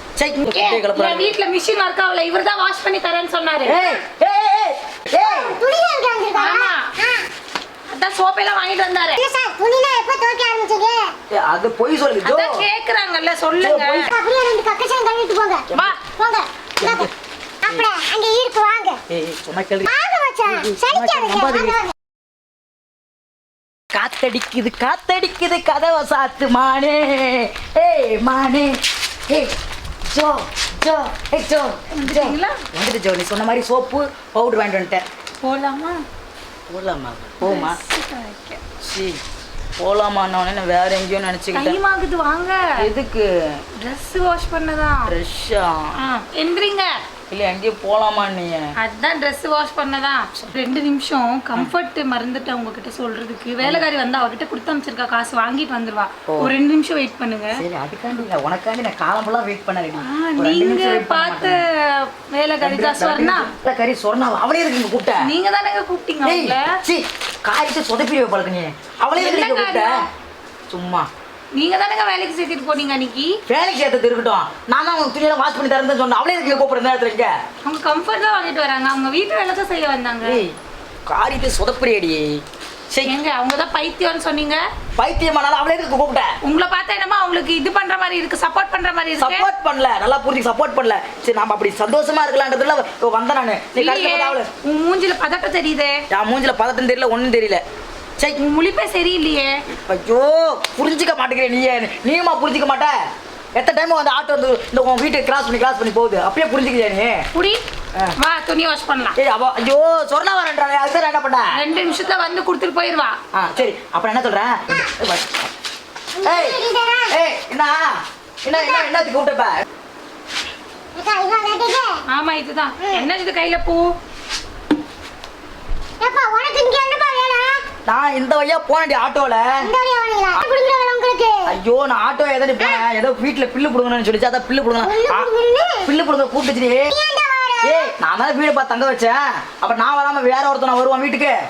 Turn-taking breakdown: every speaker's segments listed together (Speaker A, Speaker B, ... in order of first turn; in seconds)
Speaker A: 0.2-1.3, 3.6-5.6, 11.3-12.6, 13.5-14.1, 15.7-15.9, 16.8-17.1, 19.1-19.9, 20.4-21.8, 23.9-29.5, 30.1-35.0, 36.7-37.8, 38.8-39.2, 39.8-41.8, 42.8-43.6, 45.0-46.0, 47.3-48.7, 53.6-53.9, 56.3-56.5, 57.5-61.6, 62.6-65.3, 66.2-70.0, 70.7-71.1, 73.5-77.3, 80.2-80.5, 81.1-83.1, 85.0-86.3, 89.2-94.5, 96.1-97.6, 99.7-102.9, 103.5-107.2, 109.2-111.5, 113.3-115.5, 116.2-119.6, 127.9-129.7, 131.5-135.3, 135.8-136.9, 137.6-141.3
Speaker B: 0.4-3.8, 6.3-6.8, 7.9-9.2, 12.2-14.1, 31.9-32.6, 35.4-36.0, 37.4-38.6, 41.5-42.7, 43.8-45.1, 46.0-46.9, 48.8-57.6, 60.0-63.5, 65.2-66.7, 69.2-69.9, 71.5-73.4, 77.6-80.4, 83.0-84.6, 86.4-89.5, 93.7-96.0, 98.3-99.6, 107.3-107.6, 108.2-109.2, 111.5-113.2, 122.1-123.9
Speaker C: 5.2-7.3, 9.2-11.1, 14.1-17.1, 17.6-19.0, 19.9-21.9, 116.2-117.1, 118.5-118.9, 121.0-122.0, 122.8-123.1, 126.0-127.6, 129.6-131.5, 134.8-135.9, 136.9-137.9